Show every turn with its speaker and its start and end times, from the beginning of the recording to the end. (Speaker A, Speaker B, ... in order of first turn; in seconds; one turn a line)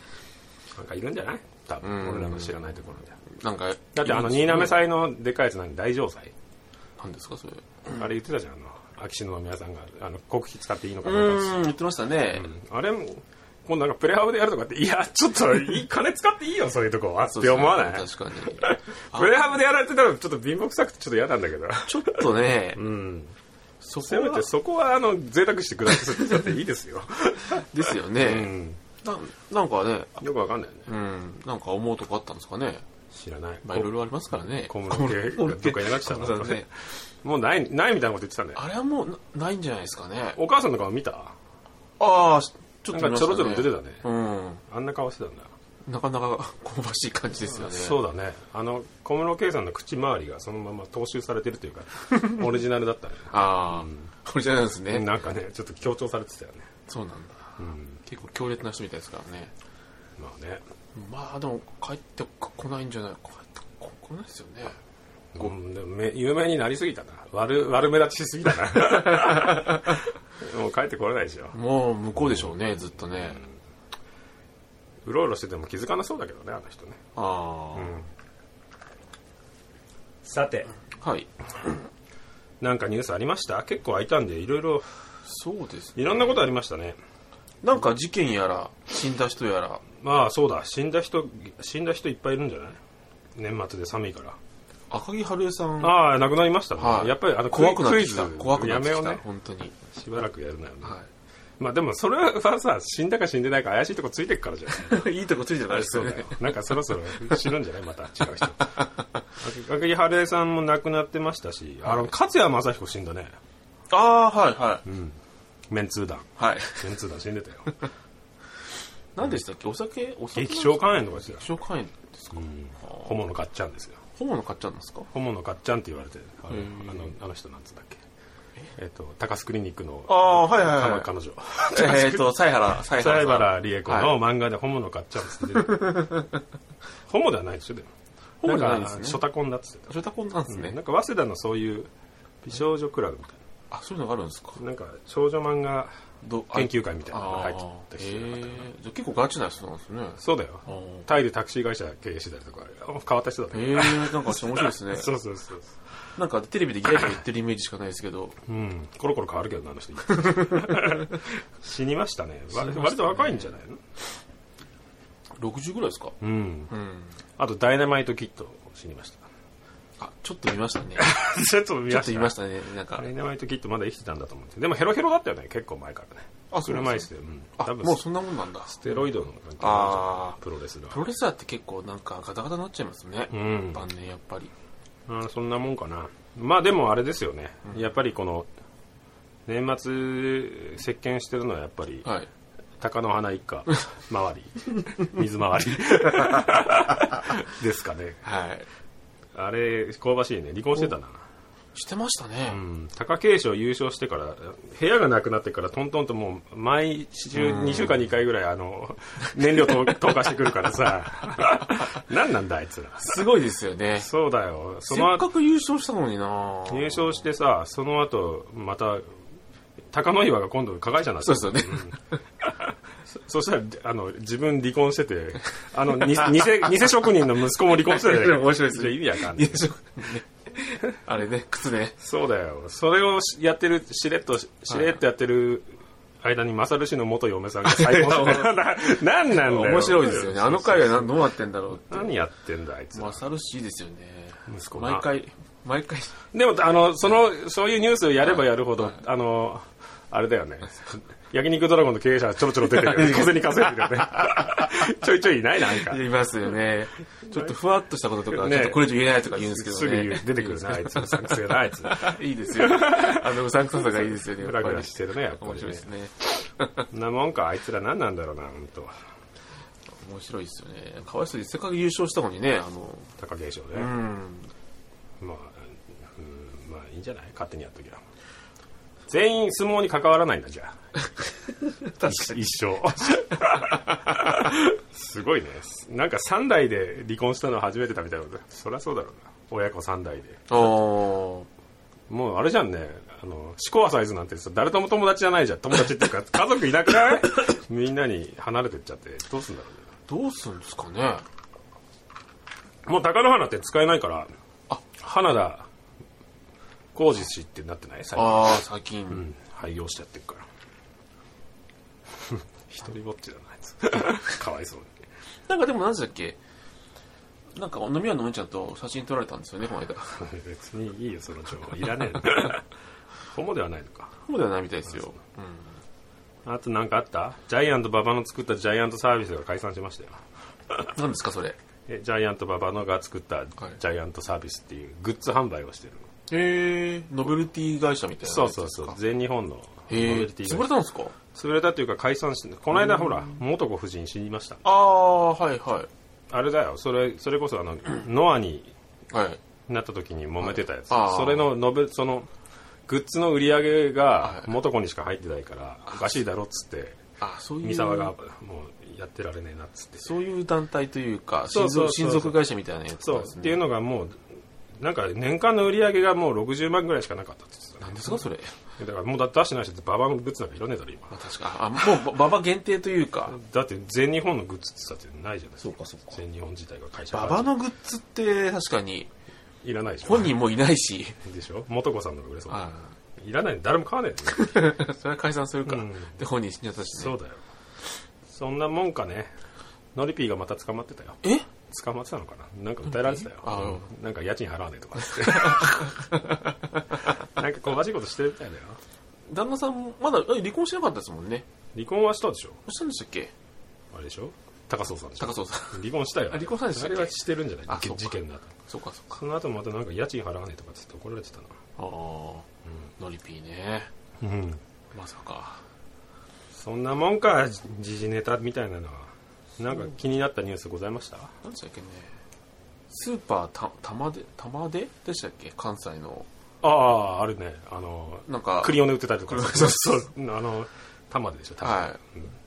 Speaker A: 0.7-3.1
Speaker B: 1.8-4.8
Speaker A: 3.9-6.3
Speaker B: 7.0-7.9
Speaker A: 7.8-11.7
Speaker B: 11.0-12.5
Speaker A: 12.3-22.2
Speaker B: 17.3-19.4
Speaker B: 21.9-22.8
Speaker A: 22.7-23.3
Speaker B: 23.8-24.5
Speaker A: 24.0-28.8
Speaker B: 27.4-30.2
Speaker A: 30.2-30.9
Speaker B: 30.9-32.8
Speaker A: 33.1-38.6
Speaker B: 33.6-36.7
Speaker B: 38.5-40.4
Speaker A: 40.4-41.3
Speaker B: 42.0-44.6
Speaker A: 42.9-44.0
Speaker A: 44.7-45.5
Speaker B: 45.9-48.0
Speaker A: 47.5-54.0
Speaker B: 53.3-55.1
Speaker A: 54.9-56.7
Speaker B: 56.9-59.5
Speaker A: 57.6-58.0
Speaker A: 60.2-60.6
Speaker B: 60.9-64.8
Speaker A: 65.3-71.5
Speaker B: 69.0-70.0
Speaker B: 71.5-73.4
Speaker A: 72.2-72.5
Speaker A: 75.0-77.0
Speaker B: 77.1-78.0
Speaker A: 77.8-78.0
Speaker A: 80.2-80.7
Speaker B: 81.0-81.8
Speaker A: 82.6-84.8
Speaker B: 85.2-86.4
Speaker A: 85.9-87.0
Speaker B: 87.6-89.8
Speaker A: 90.0-92.8
Speaker A: 93.3-94.4
Speaker B: 94.9-96.0
Speaker A: 95.8-99.2
Speaker B: 96.8-99.7
Speaker A: 99.9-101.0
Speaker A: 101.6-105.0
Speaker B: 104.7-107.4
Speaker A: 105.7-108.8
Speaker A: 109.4-113.3
Speaker B: 113.9-114.8
Speaker A: 114.8-115.2
Speaker A: 115.7-117.7
Speaker B: 116.4-116.9
Speaker B: 119.2-123.1
Speaker A: 120.3-121.5
Speaker A: 122.3-124.0
Speaker B: 124.2-125.1
Speaker A: 125.1-128.0
Speaker B: 126.5-127.1
Speaker A: 128.8-136.0
Speaker B: 130.1-131.1
Speaker B: 131.6-134.2
Speaker B: 135.6-136.3
Speaker A: 137.1-137.9
Speaker B: 138.4-139.2
Speaker A: 138.4-139.9
Speaker B: 139.9-140.8
Speaker A: 140.5-141.9
Speaker A: 142.4-143.4
Speaker B: 143.7-144.6
Speaker A: 144.6-145.9
Speaker B: 146.2-151.1
Speaker A: 146.5-148.7
Speaker A: 150.2-155.7
Speaker B: 153.5-155.1
Speaker B: 156.2-158.3
Speaker A: 158.4-163.8
Speaker B: 160.1-161.2
Speaker B: 162.5-163.5
Speaker B: 165.4-166.1
Speaker A: 166.2-166.7
Speaker B: 166.7-167.1
Speaker A: 167.4-169.2
Speaker B: 170.0-171.1
Speaker A: 171.0-172.3
Speaker B: 171.9-173.1
Speaker A: 172.9-178.0
Speaker B: 176.5-179.0
Speaker A: 178.7-181.0
Speaker B: 179.6-180.4
Speaker B: 180.9-184.5
Speaker A: 183.3-183.8
Speaker A: 185.1-188.5
Speaker A: 189.4-192.1
Speaker A: 192.8-198.2
Speaker B: 198.2-198.7
Speaker A: 199.3-201.2
Speaker B: 201.7-202.6
Speaker A: 202.5-213.2
Speaker B: 207.3-208.0
Speaker B: 213.0-214.1
Speaker A: 214.0-215.2
Speaker B: 214.9-217.2
Speaker A: 216.7-219.0
Speaker A: 219.9-229.7
Speaker B: 221.2-222.2
Speaker B: 227.6-232.0
Speaker A: 232.0-235.7
Speaker B: 234.7-235.0
Speaker A: 236.2-241.1
Speaker B: 237.6-242.1
Speaker A: 241.9-243.2
Speaker B: 242.9-246.2
Speaker A: 244.5-245.1
Speaker A: 246.3-256.0
Speaker B: 252.7-254.5
Speaker B: 255.6-266.9
Speaker A: 258.3-265.9
Speaker A: 266.9-268.9
Speaker B: 270.0-273.1
Speaker A: 273.2-273.9
Speaker B: 273.7-274.5
Speaker A: 275.2-278.0
Speaker A: 279.1-280.8
Speaker B: 281.8-282.4
Speaker A: 282.0-290.7
Speaker B: 283.6-284.3
Speaker B: 290.5-291.5
Speaker A: 292.1-299.8
Speaker B: 300.1-301.2
Speaker A: 302.9-304.3
Speaker A: 304.9-305.7
Speaker A: 306.9-308.6
Speaker B: 308.1-309.2
Speaker A: 309.1-310.5
Speaker A: 312.2-314.9
Speaker B: 315.5-316.4
Speaker B: 317.5-320.2
Speaker A: 320.2-322.6
Speaker A: 323.3-324.1
Speaker B: 324.2-325.8
Speaker A: 326.4-330.9
Speaker B: 330.9-331.6
Speaker A: 331.9-336.1
Speaker B: 336.3-339.0
Speaker A: 338.2-340.7
Speaker B: 339.9-341.1
Speaker A: 341.3-344.6
Speaker B: 344.6-345.9
Speaker A: 346.3-348.7
Speaker B: 349.1-349.4
Speaker A: 349.7-352.3
Speaker B: 350.4-351.5
Speaker A: 352.9-357.0
Speaker B: 354.2-354.5
Speaker B: 357.2-358.1
Speaker A: 357.6-360.1
Speaker B: 360.0-363.6
Speaker A: 361.5-362.4
Speaker A: 363.0-364.2
Speaker A: 364.8-368.2
Speaker B: 367.8-368.5
Speaker A: 368.8-371.1
Speaker B: 371.1-373.4
Speaker A: 373.3-377.5
Speaker B: 375.6-376.2
Speaker B: 377.1-379.1
Speaker A: 379.6-380.4
Speaker B: 380.0-381.2
Speaker A: 381.2-382.6
Speaker B: 382.5-382.9
Speaker A: 383.2-384.7
Speaker B: 384.3-387.2
Speaker A: 385.7-386.1
Speaker A: 386.9-387.4
Speaker A: 388.3-389.3
Speaker A: 389.9-396.0
Speaker B: 391.2-391.5
Speaker B: 393.1-393.9
Speaker B: 395.1-397.1
Speaker A: 397.2-398.8
Speaker B: 399.3-401.4
Speaker A: 401.7-402.6
Speaker B: 402.6-403.3
Speaker A: 403.9-408.5
Speaker B: 405.2-407.2
Speaker B: 407.7-409.2
Speaker A: 409.1-411.5
Speaker B: 411.8-412.5
Speaker B: 413.0-413.9
Speaker A: 414.2-414.6
Speaker B: 414.9-415.6
Speaker A: 416.5-421.3
Speaker B: 421.4-422.1
Speaker B: 422.9-426.3
Speaker A: 426.6-432.2
Speaker B: 428.3-430.1
Speaker B: 431.6-432.0